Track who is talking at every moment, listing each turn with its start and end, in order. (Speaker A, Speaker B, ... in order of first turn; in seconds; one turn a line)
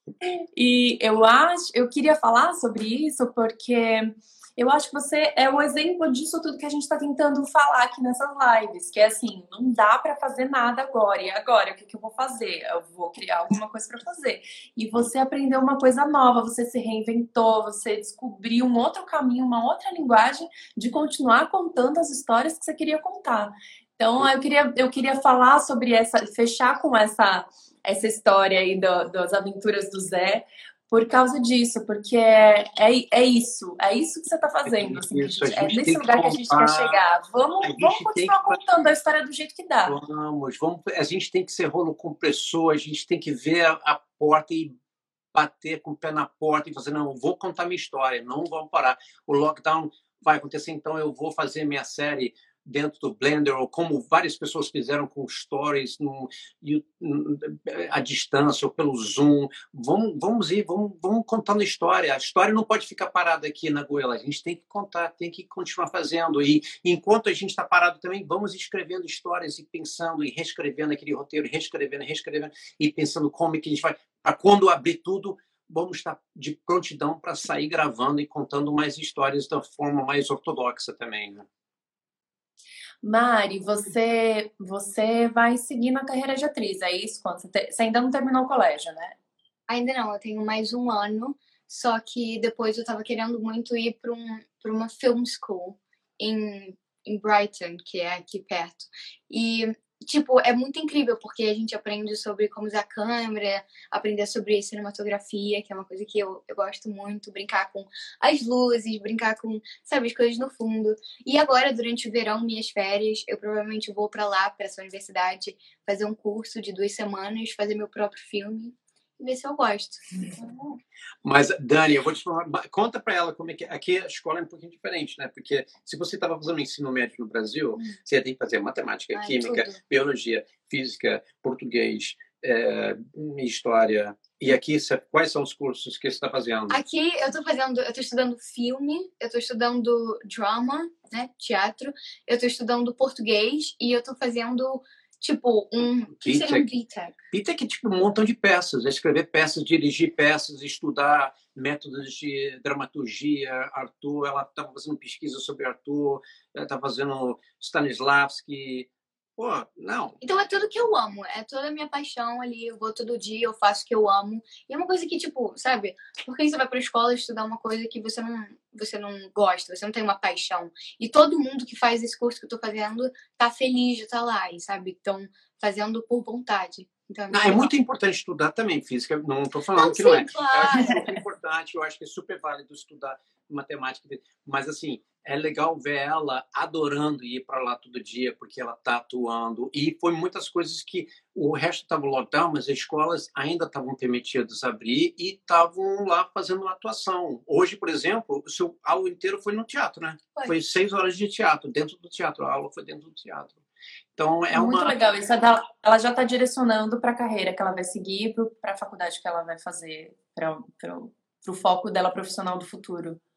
Speaker A: 0.2-40.0
Speaker B: 34.6-37.0
Speaker B: 37.6-38.6
Speaker B: 39.9-44.7
Speaker B: 45.3-81.5
Speaker A: 83.0-89.1
Speaker C: 89.7-120.7
Speaker B: 121.2-136.8
Speaker C: 129.1-129.8
Speaker C: 136.7-147.2
Speaker B: 146.1-146.7
Speaker B: 147.3-160.2
Speaker C: 160.2-177.7
Speaker B: 177.3-203.6
Speaker C: 179.7-181.1
Speaker B: 204.1-204.9
Speaker A: 204.5-213.2